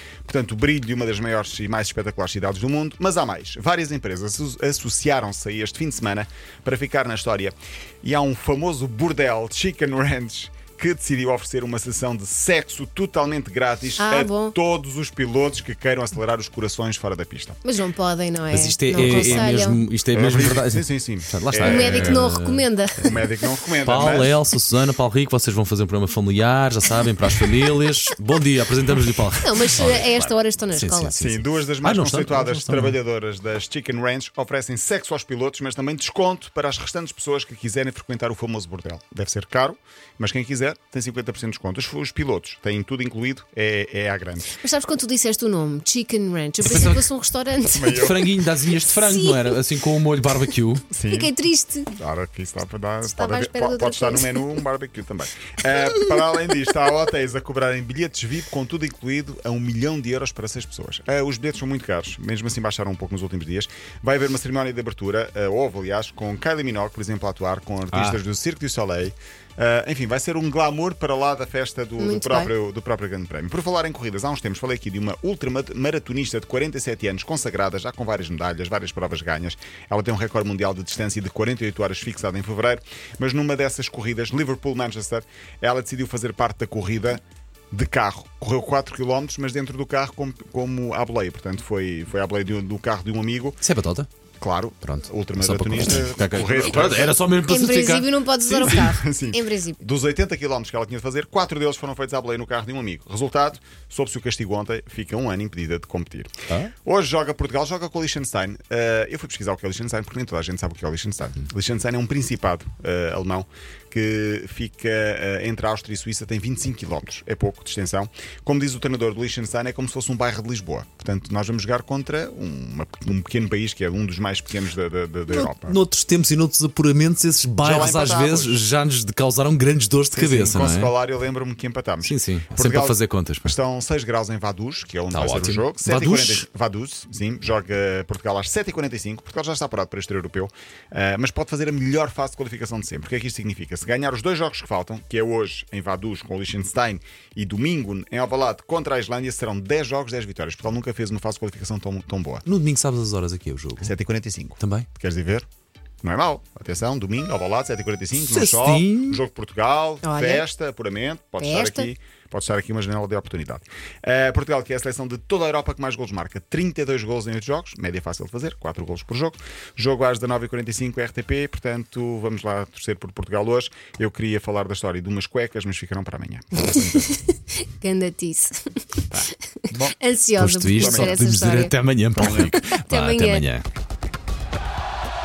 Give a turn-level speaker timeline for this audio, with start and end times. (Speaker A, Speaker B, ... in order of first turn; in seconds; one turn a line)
Speaker A: 0.2-17.6
Speaker B: 14.0-14.5
Speaker B: 17.6-19.8
Speaker C: 18.5-23.2
Speaker A: 19.0-19.5
Speaker A: 20.1-22.3
Speaker B: 21.6-23.2
Speaker A: 23.0-24.4
Speaker C: 23.8-33.0
Speaker B: 29.4-31.1
Speaker A: 31.2-44.6
Speaker B: 44.5-48.1
Speaker C: 46.6-47.0
Speaker A: 47.7-48.2
Speaker C: 47.9-50.8
Speaker B: 48.8-49.6
Speaker A: 50.9-51.3
Speaker B: 51.1-51.9
Speaker A: 52.0-93.6
Speaker B: 53.0-54.5
Speaker C: 67.9-68.2
Speaker B: 72.0-72.5
Speaker C: 93.6-94.1
Speaker A: 94.4-97.2
Speaker C: 94.8-98.8
Speaker B: 97.4-99.8
Speaker A: 98.6-125.8
Speaker C: 125.3-130.9
Speaker A: 127.6-128.6
Speaker A: 130.1-152.4
Speaker C: 132.0-133.4
Speaker C: 135.1-136.4
Speaker C: 152.4-153.9
Speaker A: 153.8-155.4
Speaker C: 154.6-154.9
Speaker A: 156.0-177.0
Speaker C: 158.1-159.2
Speaker B: 160.0-160.4
Speaker B: 161.4-161.9
Speaker B: 176.8-178.6
Speaker B: 180.0-183.4
Speaker C: 180.4-183.6
Speaker A: 180.8-181.2